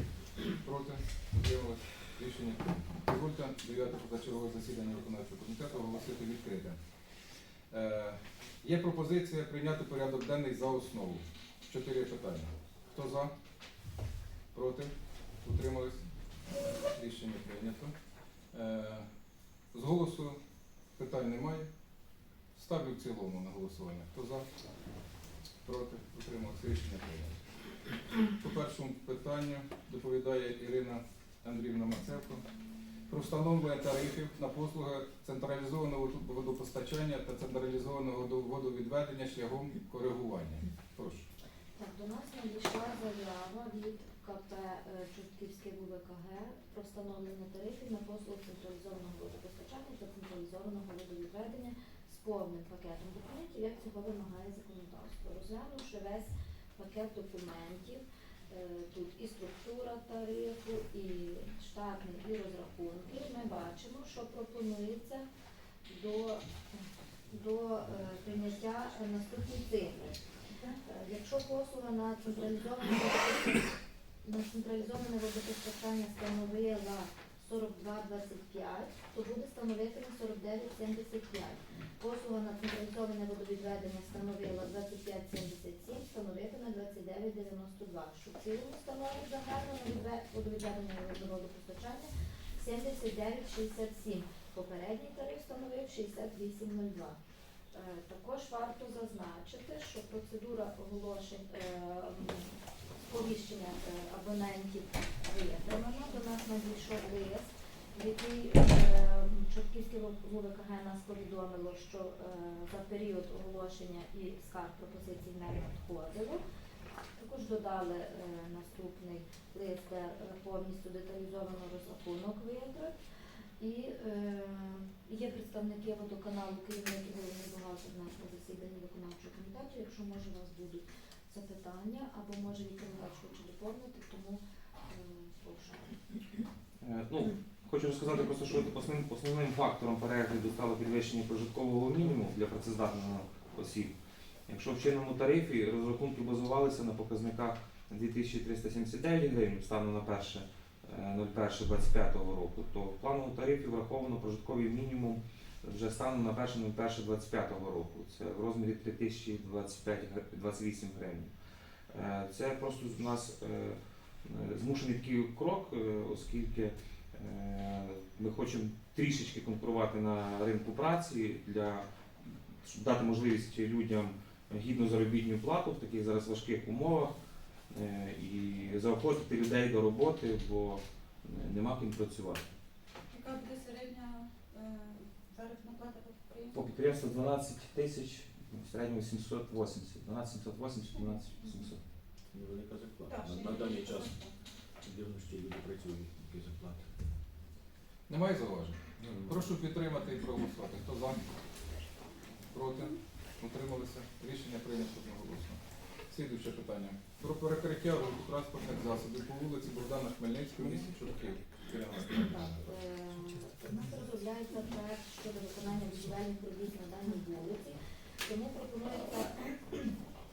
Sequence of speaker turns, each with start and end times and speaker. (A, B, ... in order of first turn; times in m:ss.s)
0:00.5-0:07.0 A
0:07.7-0:13.4 A
0:14.5-0:19.1 A
0:19.7-0:21.7 A
0:22.5-0:24.5 A
0:25.6-0:27.6 A
0:28.2-0:32.5 A
0:33.1-0:41.3 A
0:41.8-1:05.3 B
1:05.9-1:10.2 B
1:10.7-1:37.2 B
1:37.7-1:56.4 B
1:57.2-2:03.0 B
2:03.6-2:16.0 B
2:16.8-2:24.0 C
2:24.5-2:41.3 C
2:41.9-2:57.1 C
2:57.7-3:02.5 C
3:03.1-3:06.6 D
3:06.6-3:11.8 C
3:10.9-3:11.7 D
3:12.3-3:14.2 E
3:13.1-3:14.4 D
3:14.8-3:16.9 E
3:18.1-3:21.3 A
3:19.0-3:19.4 E
3:22.4-3:32.6 A
3:32.4-3:40.0 B